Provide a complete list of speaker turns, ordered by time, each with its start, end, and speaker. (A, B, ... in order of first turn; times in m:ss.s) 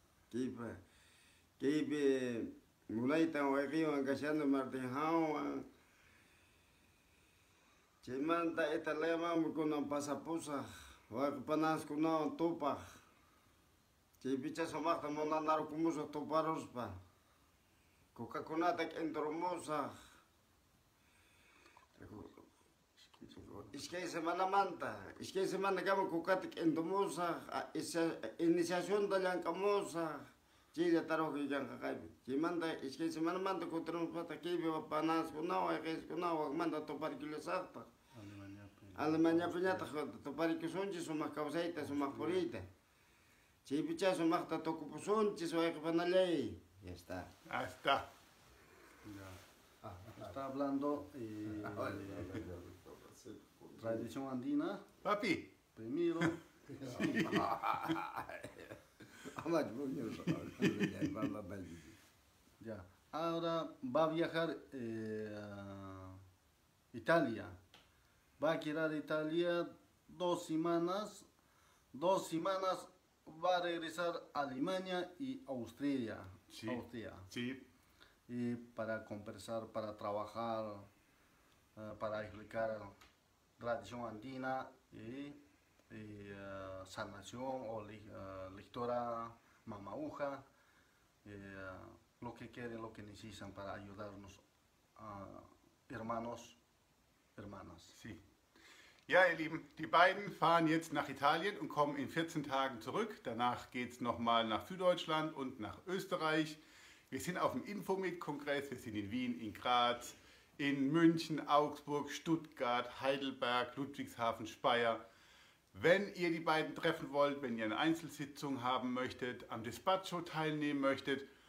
0:00.3-0:00.8 A
0:01.6-0:05.6 A
0:08.0-0:12.8 A
0:14.2-0:17.0 A
0:18.1-0:19.9 A
0:21.9-0:22.2 B
0:22.0-0:22.4 A
0:23.0-0:23.7 B
0:23.2-0:30.2 A
0:30.7-0:37.9 A
0:38.2-0:39.9 B
0:39.0-0:42.7 A
0:41.8-0:42.4 B
0:43.6-0:47.3 A
0:47.5-0:48.0 C
0:49.0-0:49.4 B
0:49.8-0:50.3 A
0:50.1-0:52.4 B
0:51.6-0:54.0 A
0:53.8-0:54.8 B
0:55.0-0:55.5 C
0:55.8-0:57.4 B
0:56.8-1:02.0 A
1:02.6-1:06.2 B
1:06.9-1:07.5 B
1:08.4-1:11.2 B
1:11.9-1:17.3 B
1:16.5-1:17.6 C
1:18.3-1:20.9 B
1:21.8-1:22.9 B
1:23.6-1:25.4 B
1:25.9-1:30.4 B
1:31.2-1:34.4 B
1:35.0-1:36.6 B
1:37.4-1:37.9 B
1:39.1-1:55.0 C
1:55.7-2:01.2 C